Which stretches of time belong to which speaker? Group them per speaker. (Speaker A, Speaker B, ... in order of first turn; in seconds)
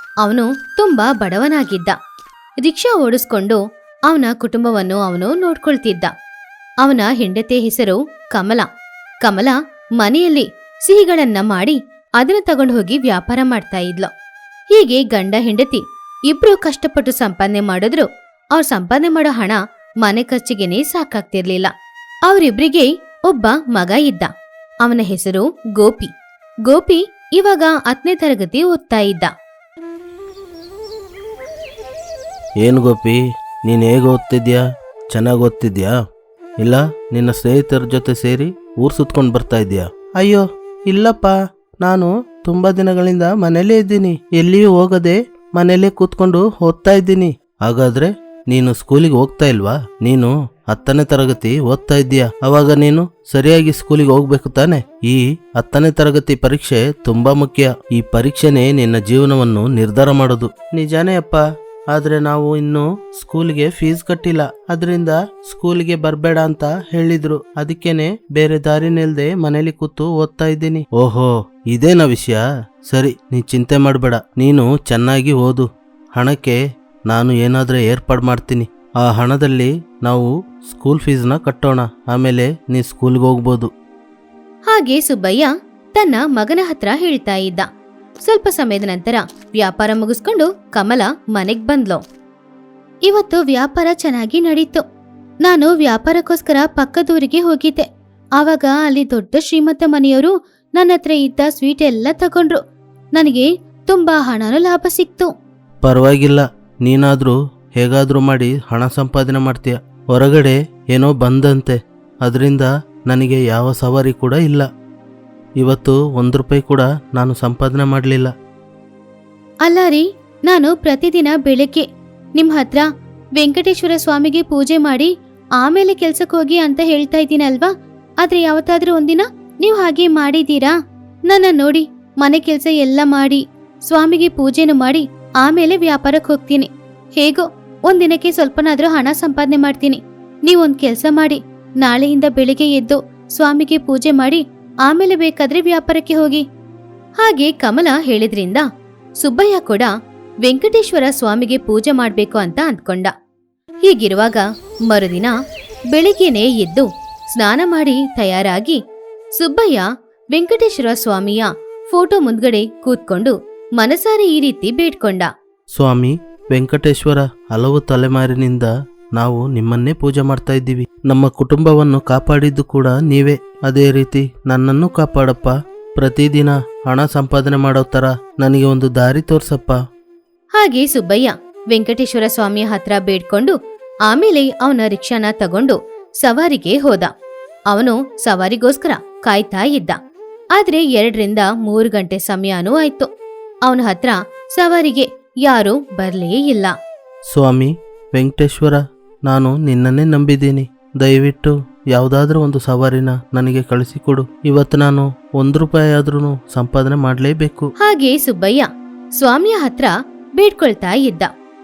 Speaker A: 0.2-1.9, 2.6-6.1, 6.8-8.7, 9.2-14.1, 14.7-21.7, 22.3-24.3, 24.8-26.1, 26.7-29.3, 84.7-87.7, 88.2-92.0, 93.0-94.8, 95.4-97.8, 98.4-102.6, 103.1-105.3, 119.6-121.8, 122.4-122.8, 123.4-127.7, 128.2-130.7, 131.3-146.4, 147.2-148.6, 149.2-149.9, 150.4-153.1, 153.8-155.3, 155.9-158.8, 159.4-165.3, 180.6-183.5, 184.1-187.1, 187.7-190.0, 190.6-193.1, 193.7-196.7, 207.8-208.7, 209.2-211.3
Speaker B: 32.6-34.6, 35.1-35.9, 36.6-61.4, 61.9-76.6, 77.1-83.7, 105.8-114.7, 115.6-118.3, 165.8-179.8, 197.3-207.7